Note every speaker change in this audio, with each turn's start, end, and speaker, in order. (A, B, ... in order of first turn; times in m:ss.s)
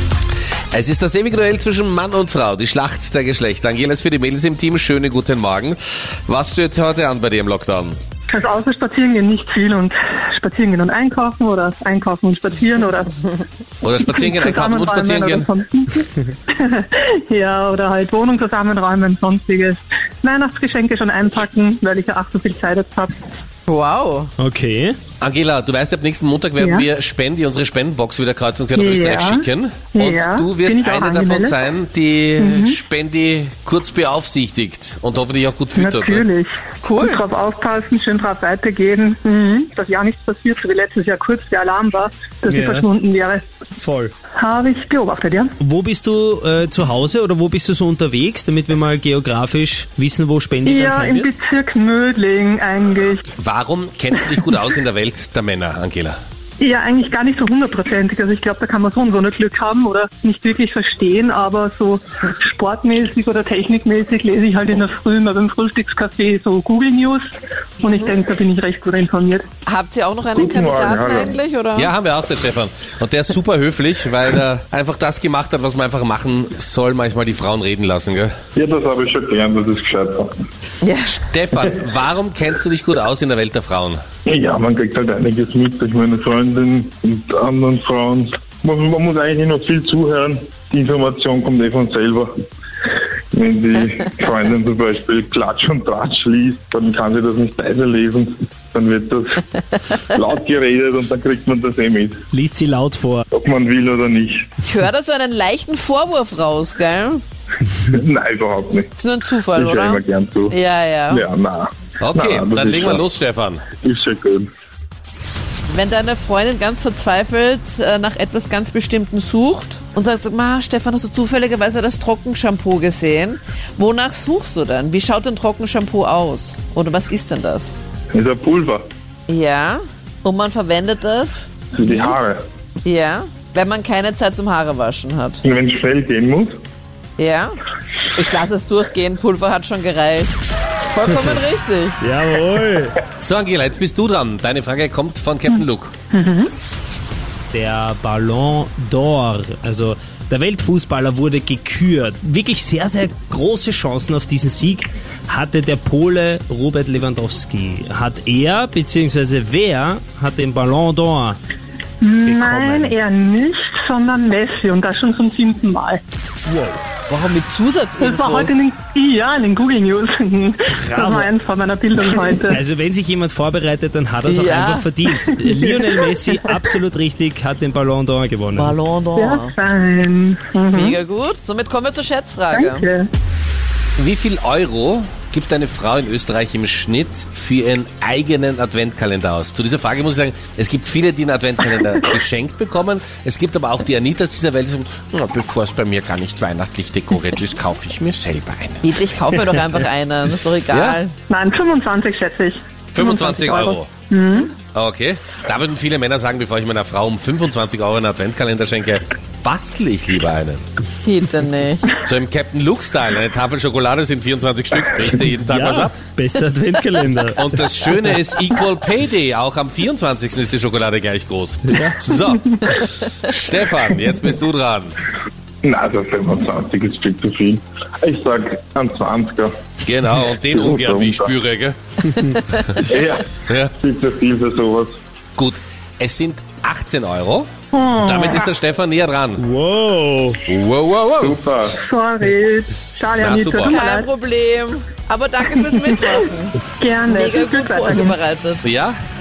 0:00.7-0:08.0 A
0:08.3-0:13.4 B
0:13.8-0:15.5 A
0:14.0-0:23.1 B
0:23.7-0:24.3 C
0:24.4-0:25.0 D
0:25.2-0:36.3 A
0:26.6-0:26.8 B
0:28.8-0:31.6 B
0:32.4-0:32.8 B
0:35.8-0:43.4 B
0:36.8-0:37.2 C
0:42.5-0:42.8 D
0:43.8-0:44.1 D
0:44.4-0:45.5 B
0:45.6-0:51.3 D
0:50.6-0:53.2 B
0:53.4-0:56.2 A
0:56.6-1:07.3 B
1:07.8-1:09.5 B
1:09.7-1:11.9 C
1:10.3-1:11.4 E
1:11.8-1:18.3 A
1:18.6-1:20.3 E
1:20.8-1:21.2 C
1:21.1-1:24.0 A
1:24.3-1:32.3 E
1:33.3-1:39.4 E
1:40.1-1:42.2 E
1:42.3-1:43.2 D
1:43.3-1:44.5 E
1:44.6-1:47.2 C
1:47.9-1:49.0 E
1:49.0-1:51.2 C
1:49.5-1:50.6 E
1:51.1-1:53.0 E
1:52.0-1:53.6 A
1:53.8-1:54.5 E
1:55.7-2:07.7 C
2:08.1-2:08.8 E
2:09.3-2:12.2 C
2:11.8-2:12.4 E
2:12.8-2:15.4 C
2:15.4-2:16.6 E
2:17.2-2:17.6 C
2:18.2-2:22.0 C
2:22.0-2:23.0 D
2:23.2-2:25.9 A
2:26.1-2:26.5 B
2:27.5-2:41.4 D
2:42.0-2:46.0 B
2:42.2-2:43.0 D
2:46.5-2:46.8 D
2:47.1-2:48.6 C
2:48.0-2:52.6 B
2:50.7-2:51.3 D
2:52.5-2:58.8 D
2:54.3-2:54.9 C
2:55.1-2:56.6 B
2:58.6-2:59.5 C
2:59.2-3:01.0 B
3:00.7-3:02.9 C
3:02.5-3:03.1 B
3:04.0-3:18.9 A
3:18.8-3:21.2 C
3:20.7-3:21.0 A
3:21.3-3:24.5 B
3:22.9-3:23.9 A
3:24.7-3:30.6 A
3:31.0-3:32.0 C
3:32.0-3:36.0 A
3:35.4-3:37.5 D
3:37.4-3:45.0 A
3:41.7-3:42.0 D
3:45.6-3:49.6 E
3:49.8-3:52.9 A
3:50.4-3:51.3 E
3:52.8-3:55.0 E
3:53.5-3:53.7 A
3:55.4-3:57.5 A
3:57.7-3:58.4 B
3:58.0-3:59.4 A
3:59.4-4:00.4 D
4:00.5-4:01.4 A
4:01.2-4:01.8 E
4:01.8-4:04.1 B
4:03.2-4:03.7 A
4:03.7-4:08.6 C
4:05.8-4:06.1 B
4:06.8-4:08.2 B
4:08.6-4:09.0 A